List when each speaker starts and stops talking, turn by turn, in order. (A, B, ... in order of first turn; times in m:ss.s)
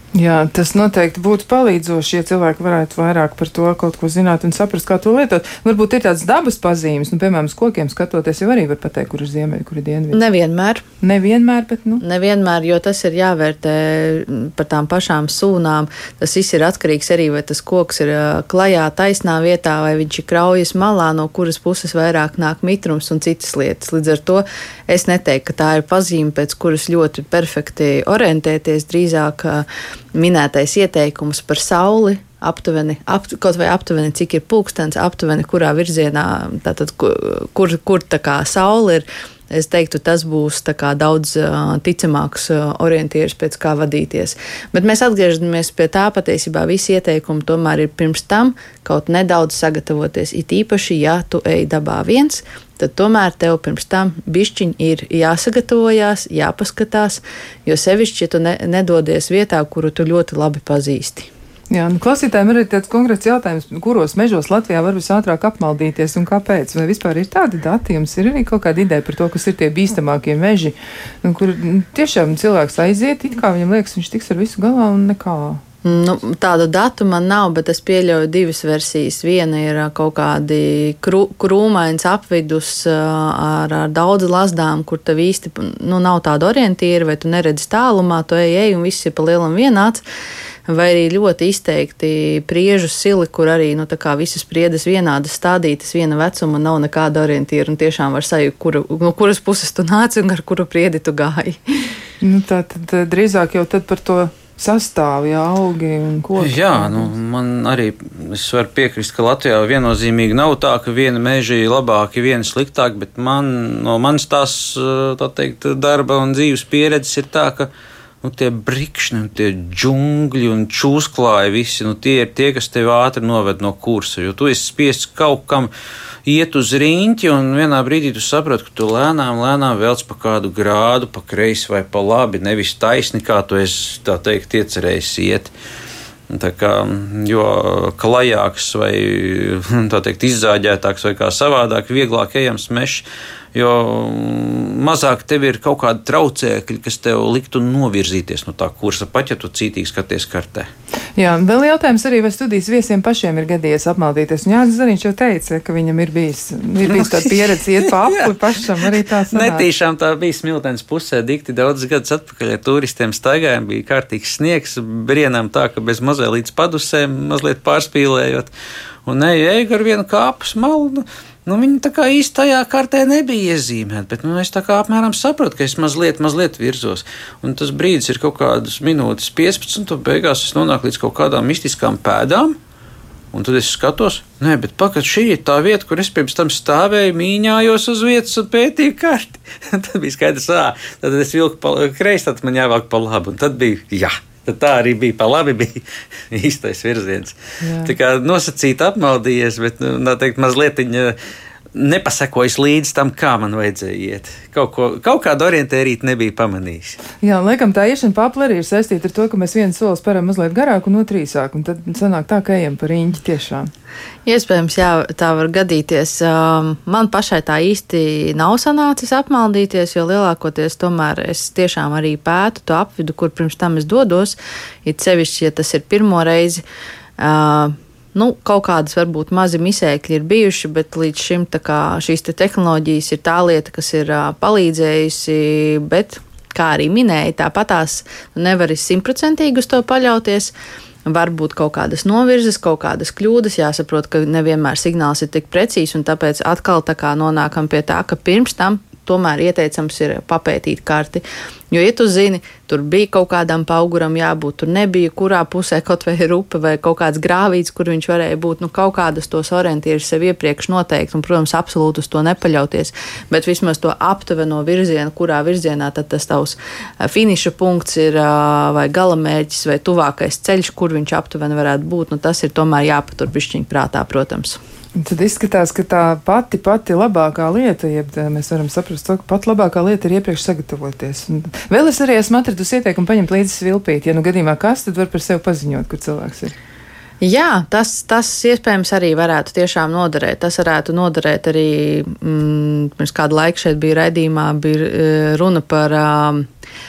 0:00.1-0:10.2 A
0:10.1-0:10.8 B
0:11.0-0:12.0 A
0:12.0-1:01.3 B
1:01.7-1:15.6 A
1:15.8-1:30.0 B
1:30.7-1:41.9 B
1:42.2-1:47.1 A
1:46.4-1:57.7 C
1:58.2-2:05.7 C
2:06.2-2:15.5 C
2:16.3-2:30.7 C
2:31.2-2:39.7 A
2:36.9-2:48.5 C
2:49.0-3:02.6 C
3:03.3-3:21.2 C
3:17.6-3:17.9 A
3:21.7-3:27.0 C
3:27.2-3:33.7 A
3:34.2-3:46.6 B
3:47.2-4:00.5 B
4:01.0-4:34.6 B
4:35.0-4:46.5 A
4:47.2-4:56.4 B